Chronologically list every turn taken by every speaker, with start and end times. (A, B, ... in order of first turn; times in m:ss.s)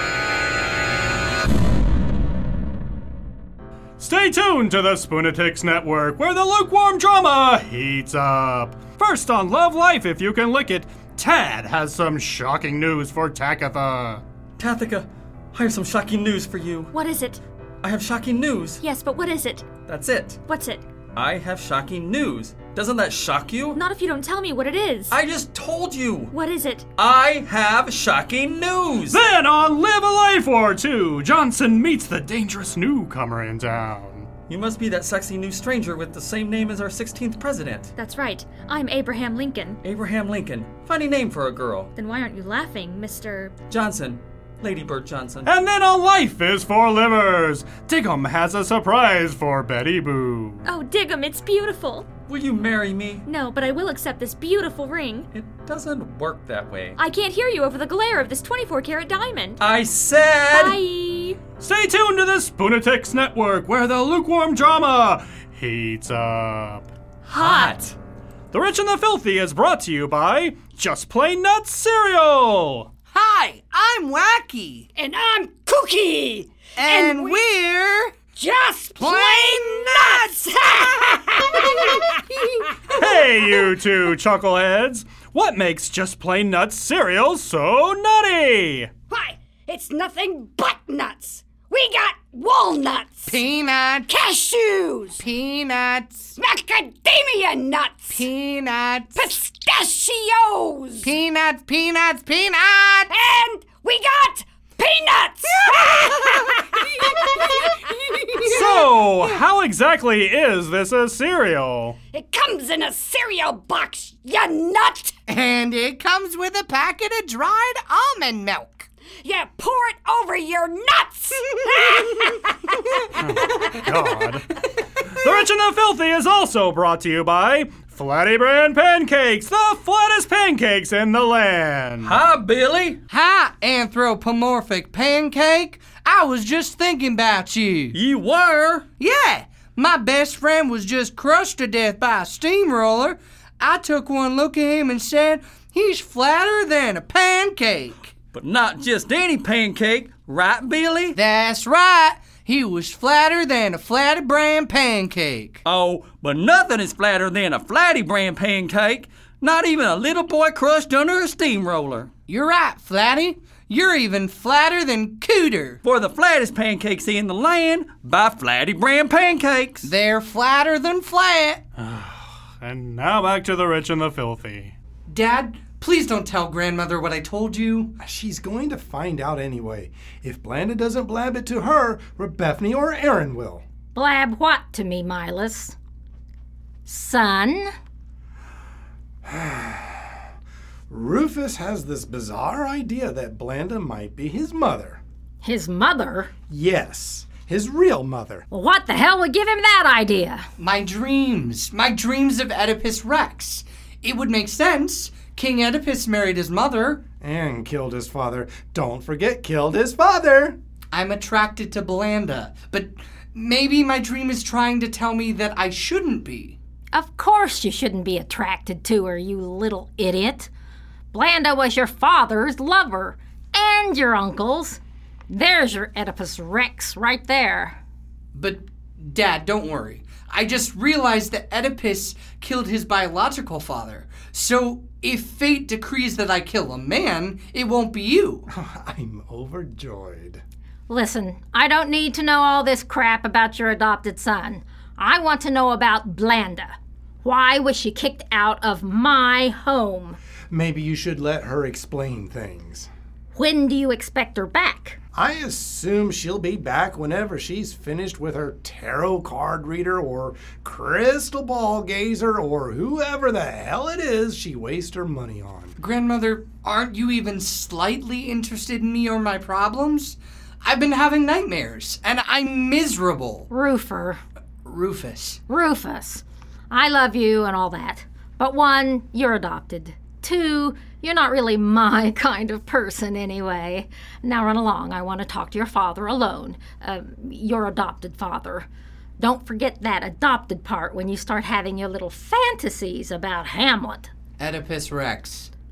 0:04.0-0:14.2 A
0:14.6-0:16.9 B
0:16.9-0:17.4 C
0:17.8-0:18.8 B
0:18.8-0:19.7 C
0:19.8-0:20.4 B
0:20.5-0:20.8 C
0:21.1-0:23.8 B
0:23.7-0:25.1 C
0:25.1-0:26.3 B
0:26.3-0:26.8 C
0:27.0-0:29.2 B
0:29.1-0:34.3 A
0:34.5-0:37.9 B
0:38.0-0:39.8 C
0:39.8-0:41.9 B
0:42.0-0:43.5 C
0:43.7-0:45.5 B
0:45.4-0:50.7 A
0:50.7-0:52.1 C
0:52.3-0:53.2 B
0:53.3-0:55.3 C
0:55.3-0:57.0 B
0:57.0-0:59.5 C
0:59.6-1:00.8 B
1:00.5-1:01.4 C
1:01.6-1:06.9 A
1:07.3-1:07.9 B
1:07.4-1:07.8 C
1:08.5-1:12.9 A
1:13.1-1:14.9 D
1:15.0-1:17.4 E
1:16.8-1:18.2 D
1:18.3-1:23.6 E
1:19.0-1:22.0 D
1:22.9-1:28.9 A
1:29.1-1:33.4 E
1:33.3-1:34.1 D
1:34.0-1:35.2 E
1:35.2-1:36.3 D
1:36.4-1:38.3 E
1:38.1-1:39.2 D
1:39.1-1:41.1 E
1:41.0-1:43.1 D
1:43.1-1:48.5 E
1:47.7-1:49.4 D
1:48.5-1:52.0 A
1:52.1-1:55.2 E
1:55.3-1:58.9 D
1:59.2-2:02.6 E
2:03.2-2:12.2 A
2:03.2-2:03.7 E
2:12.0-2:13.0 B
2:13.1-2:18.0 D
2:17.9-2:18.8 B
2:19.0-2:28.1 D
2:28.3-2:31.2 B
2:31.1-2:35.6 D
2:35.6-2:42.1 B
2:42.3-2:45.8 D
2:45.8-2:49.9 B
2:49.8-2:51.6 D
2:51.8-2:54.7 A
2:55.1-2:57.9 D
2:58.0-3:03.6 F
3:03.9-3:05.8 G
3:06.8-3:07.7 G
3:09.2-3:10.1 F
3:10.9-3:15.0 F
3:15.4-3:16.3 G
3:16.5-3:18.4 F
3:18.5-3:20.4 G
3:20.6-3:27.0 D
3:27.2-3:30.6 F
3:30.9-3:36.6 D
3:36.9-3:40.5 G
3:41.1-3:47.8 G
3:48.3-3:58.4 D
3:58.5-4:00.4 F
4:00.9-4:10.2 G
4:10.5-4:12.9 F
4:13.3-4:15.0 G
4:15.1-4:25.8 F
4:25.8-4:33.5 D
4:33.5-4:34.2 G
4:34.6-4:35.4 D
4:35.5-4:48.7 G
4:49.2-4:54.1 G
4:54.4-4:55.5 D